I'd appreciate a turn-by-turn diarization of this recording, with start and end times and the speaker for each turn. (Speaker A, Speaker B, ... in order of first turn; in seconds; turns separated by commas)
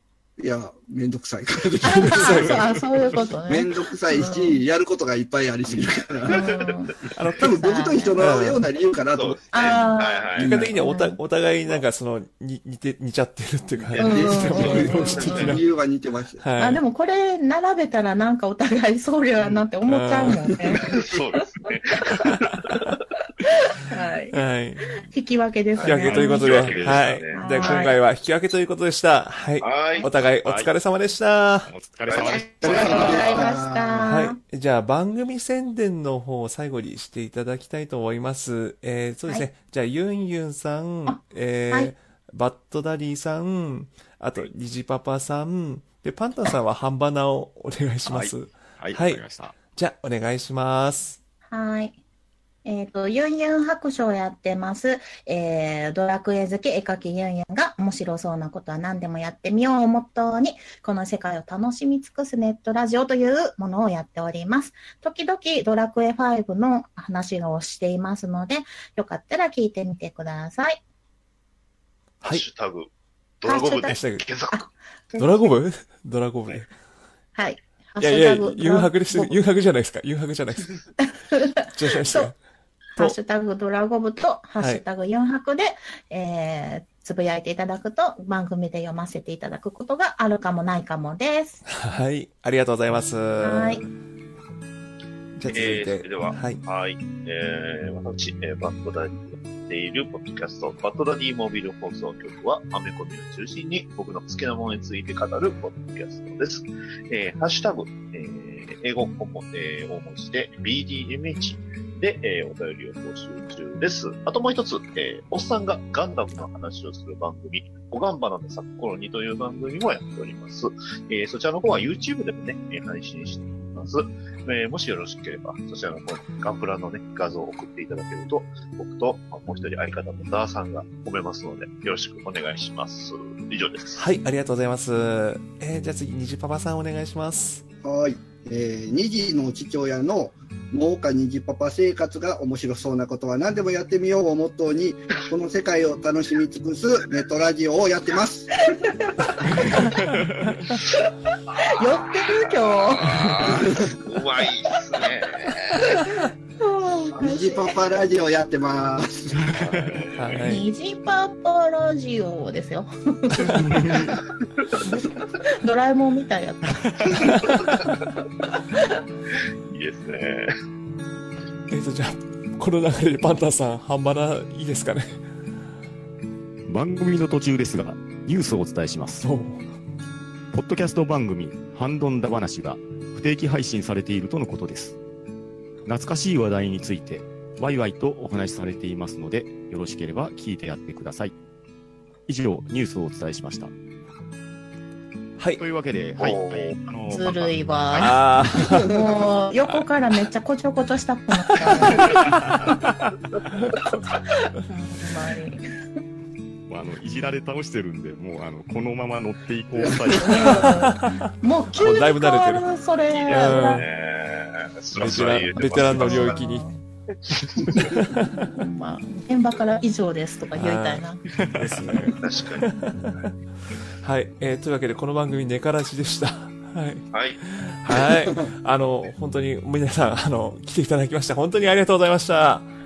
Speaker A: 0.4-2.5, Speaker B: 1.8-4.6, Speaker C: 2.1-2.6, Speaker D: 2.2-3.2, Speaker A: 3.5-6.6, Speaker B: 6.3-8.3, Speaker C: 7.1-7.5, Speaker A: 7.4-10.7, Speaker C: 8.2-8.6, Speaker E: 9.1-10.6, Speaker B: 9.5-11.2, Speaker C: 10.4-15.6, Speaker E: 13.9-15.5, Speaker B: 14.0-15.6, Speaker A: 14.0-16.4, Speaker C: 16.4-16.8, Speaker B: 16.6-21.4, Speaker C: 19.9-20.4, Speaker E: 20.8-22.9, Speaker B: 23.4-24.4, Speaker C: 24.3-25.0, Speaker B: 25.0-26.8, Speaker E: 25.8-27.9, Speaker C: 25.8-31.7, Speaker D: 26.1-27.1, Speaker B: 27.4-28.0, Speaker E: 29.6-30.1, Speaker D: 30.4-30.7, Speaker D: 31.7-33.5, Speaker E: 32.1-33.3, Speaker B: 32.1-34.4, Speaker A: 32.6-34.1, Speaker C: 34.1-49.2, Speaker B: 41.1-41.9, Speaker D: 48.0-49.5, Speaker C: 49.7-51.2, Speaker B: 51.5-52.0, Speaker B: 52.6-70.8, Speaker E: 72.2-72.9, Speaker E: 73.4-74.6, Speaker B: 73.5-74.0, Speaker C: 73.9-74.2, Speaker B: 74.5-75.4, Speaker C: 75.2-76.7, Speaker B: 77.3-79.4, Speaker C: 78.0-80.8, Speaker B: 81.3-82.3, Speaker C: 81.7-82.4, Speaker B: 83.0-91.6, Speaker C: 91.7-93.9, Speaker B: 93.4-93.8, Speaker C: 95.4-96.6, Speaker E: 95.5-134.0, Speaker C: 133.9-137.6, Speaker A: 137.8-148.7, Speaker B: 149.6-150.0, Speaker D: 150.0-150.5, Speaker B: 151.6-153.6, Speaker E: 152.2-156.0, Speaker A: 153.6-153.9, Speaker B: 155.8-157.8, Speaker A: 157.2-159.4, Speaker D: 159.3-160.0, Speaker E: 159.5-160.5, Speaker C: 160.2-160.6, Speaker B: 160.4-164.2, Speaker D: 163.4-164.2, Speaker B: 165.0-167.6, Speaker C: 167.1-167.4, Speaker E: 167.6-167.9, Speaker E: 169.7-170.5, Speaker C: 171.7-175.2, Speaker D: 176.7-179.2, Speaker C: 179.2-179.7, Speaker D: 180.5-184.9, Speaker D: 185.8-191.3, Speaker D: 192.3-193.7, Speaker D: 195.6-198.4, Speaker E: 196.2-196.8, Speaker B: 197.1-202.4, Speaker C: 198.0-198.9, Speaker A: 198.7-198.9, Speaker C: 201.9-202.6, Speaker D: 202.4-202.7, Speaker E: 203.7-204.0, Speaker B: 204.7-205.8, Speaker D: 206.7-210.9, Speaker A: 209.8-210.2, Speaker B: 210.2-213.8, Speaker C: 210.4-211.3, Speaker C: 211.8-212.7, Speaker E: 213.1-216.4, Speaker C: 213.3-213.9, Speaker C: 214.9-216.7, Speaker B: 215.9-216.8, Speaker D: 217.4-217.7, Speaker E: 217.6-217.9, Speaker C: 217.7-218.5, Speaker B: 218.4-221.2, Speaker C: 220.5-223.3, Speaker D: 221.3-222.1, Speaker E: 222.2-223.3, Speaker C: 224.0-232.7, Speaker E: 227.1-227.4, Speaker A: 227.9-228.5